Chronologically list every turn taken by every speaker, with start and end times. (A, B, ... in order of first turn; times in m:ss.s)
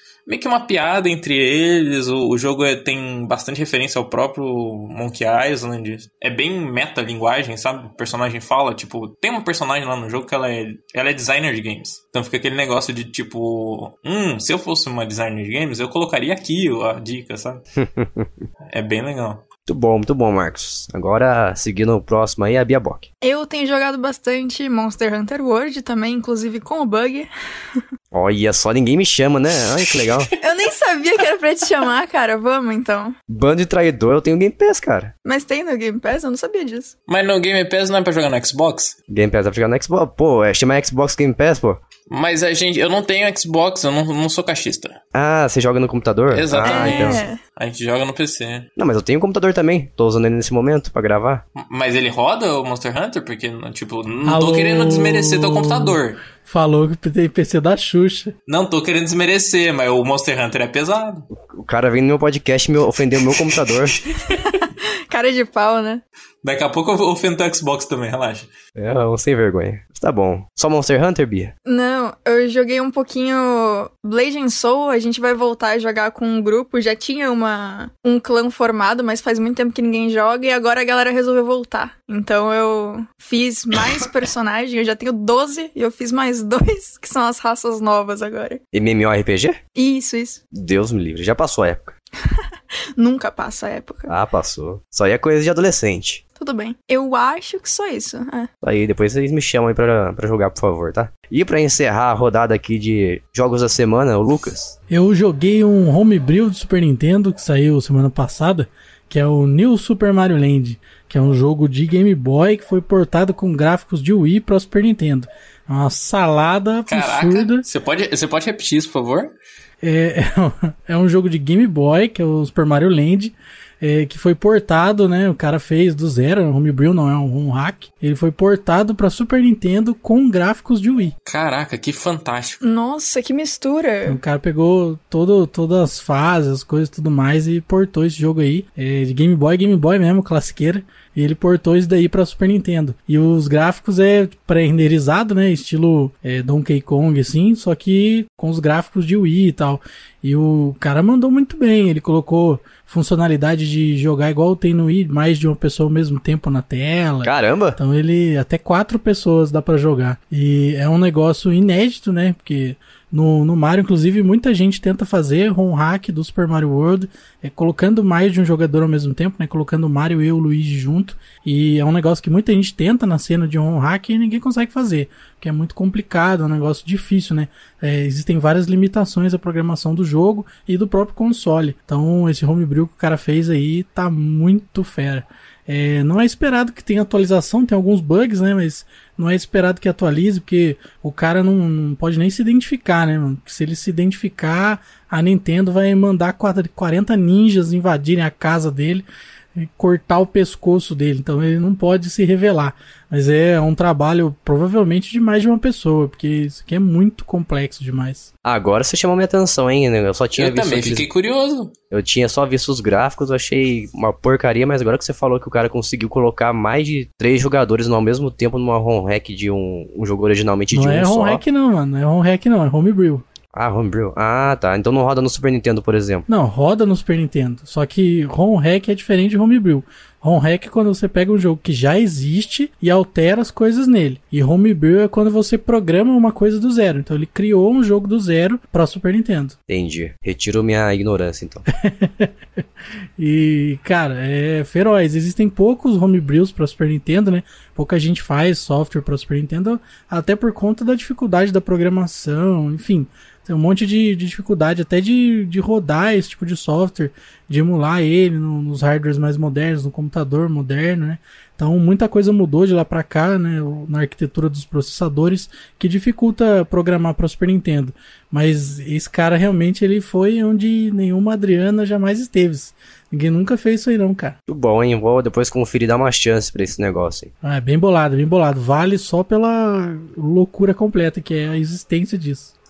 0:00.3-0:17.6 A
0:17.8-0:18.4 B
0:18.7-0:19.4 A
0:19.7-0:23.1 B
0:23.2-0:27.8 C
0:28.1-0:30.3 B
0:29.9-0:30.2 A
0:30.4-0:33.2 C
0:33.3-0:35.1 B
0:35.2-0:36.9 C
0:37.1-0:39.0 A
0:39.1-0:41.8 B
0:42.1-0:45.0 A
0:45.1-0:47.2 B
0:46.3-0:48.7 A
0:46.6-0:47.4 C
0:48.8-0:51.4 B
0:51.6-0:56.2 A
0:54.3-0:58.3 D
0:58.5-1:01.3 A
1:01.3-1:04.0 B
1:03.3-1:03.9 A
1:04.2-1:06.0 C
1:06.4-1:08.5 A
1:08.8-1:11.5 B
1:11.7-1:28.6 C
1:28.7-1:29.6 B
1:29.8-1:30.4 C
1:30.5-1:31.9 B
1:32.2-1:34.1 C
1:34.1-1:36.2 B
1:36.4-1:38.5 C
1:38.6-1:44.8 B
1:44.9-1:57.6 D
1:56.9-1:59.3 A
1:59.8-2:11.1 D
2:11.3-2:12.6 A
2:12.6-2:14.2 C
2:14.1-3:19.0 D
2:37.2-2:37.8 B
3:19.6-3:28.3 D
3:28.4-3:31.1 B
3:30.4-3:31.7 A
3:31.9-3:41.4 B
3:40.7-3:43.2 D
3:43.5-3:46.3 B
3:46.3-3:59.6 D
3:59.7-4:01.6 B
4:01.8-4:02.3 D
4:03.2-4:34.4 D
4:34.5-4:37.3 B
4:37.4-4:42.5 D